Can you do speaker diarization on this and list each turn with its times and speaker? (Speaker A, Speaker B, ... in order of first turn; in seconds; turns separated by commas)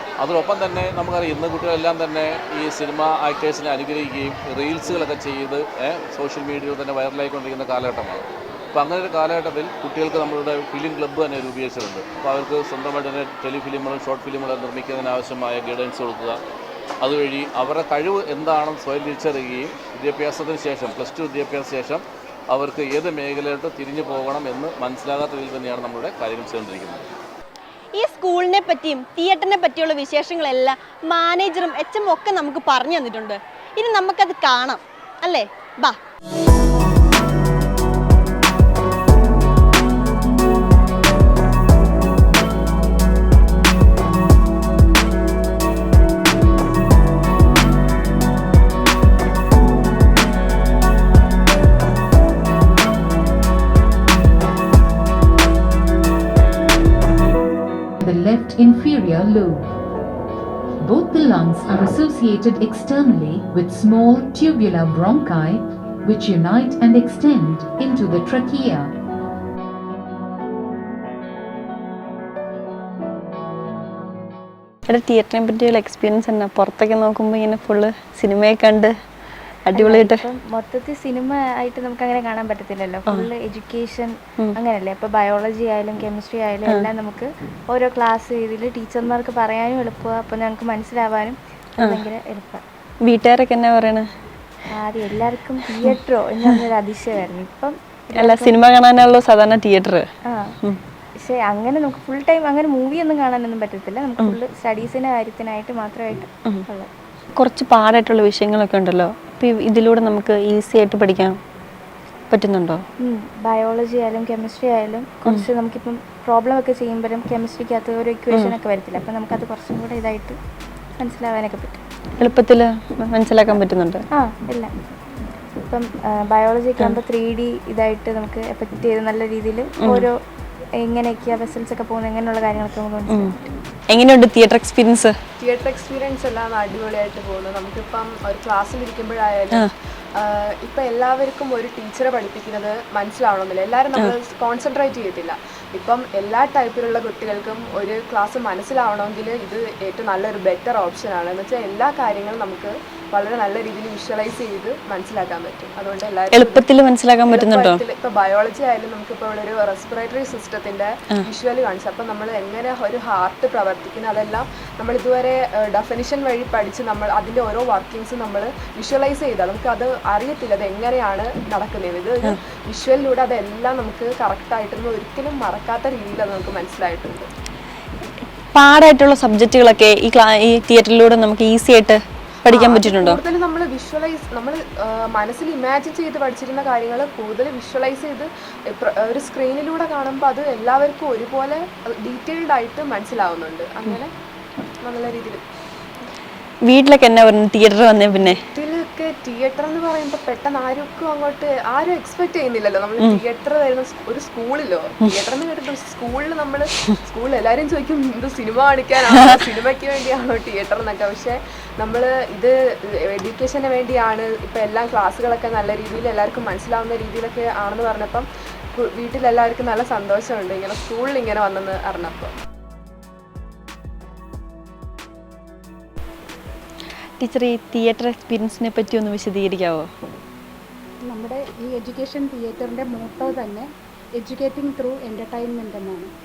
Speaker A: 0.2-16.4, Speaker A: 17.0-27.1, Speaker B: 28.0-36.0, Speaker C: 58.0-59.7, Speaker C: 60.8-68.9, Speaker D: 74.9-78.9, Speaker D: 79.7-80.2, Speaker E: 79.7-92.6, Speaker D: 93.0-94.1, Speaker E: 94.7-98.7, Speaker D: 98.2-100.1, Speaker E: 100.3-100.5, Speaker E: 101.2-106.9, Speaker D: 107.4-111.4, Speaker D: 112.3-112.8, Speaker E: 113.0-120.4, Speaker E: 121.0-121.8, Speaker D: 122.2-124.0, Speaker E: 124.1-124.7, Speaker E: 125.7-130.1, Speaker D: 129.8-130.1, Speaker E: 130.8-133.5, Speaker D: 133.9-135.1, Speaker F: 135.4-139.7, Speaker F: 140.2-156.7, Speaker D: 156.3-157.8, Speaker F: 157.3-177.3, Speaker D: 178.6-183.2, Speaker F: 182.5-194.1, Speaker F: 194.8-195.4, Speaker D: 196.7-198.4, Speaker F: 198.2-222.3, Speaker D: 227.2-229.9, Speaker G: 231.1-233.7, Speaker G: 234.2-236.1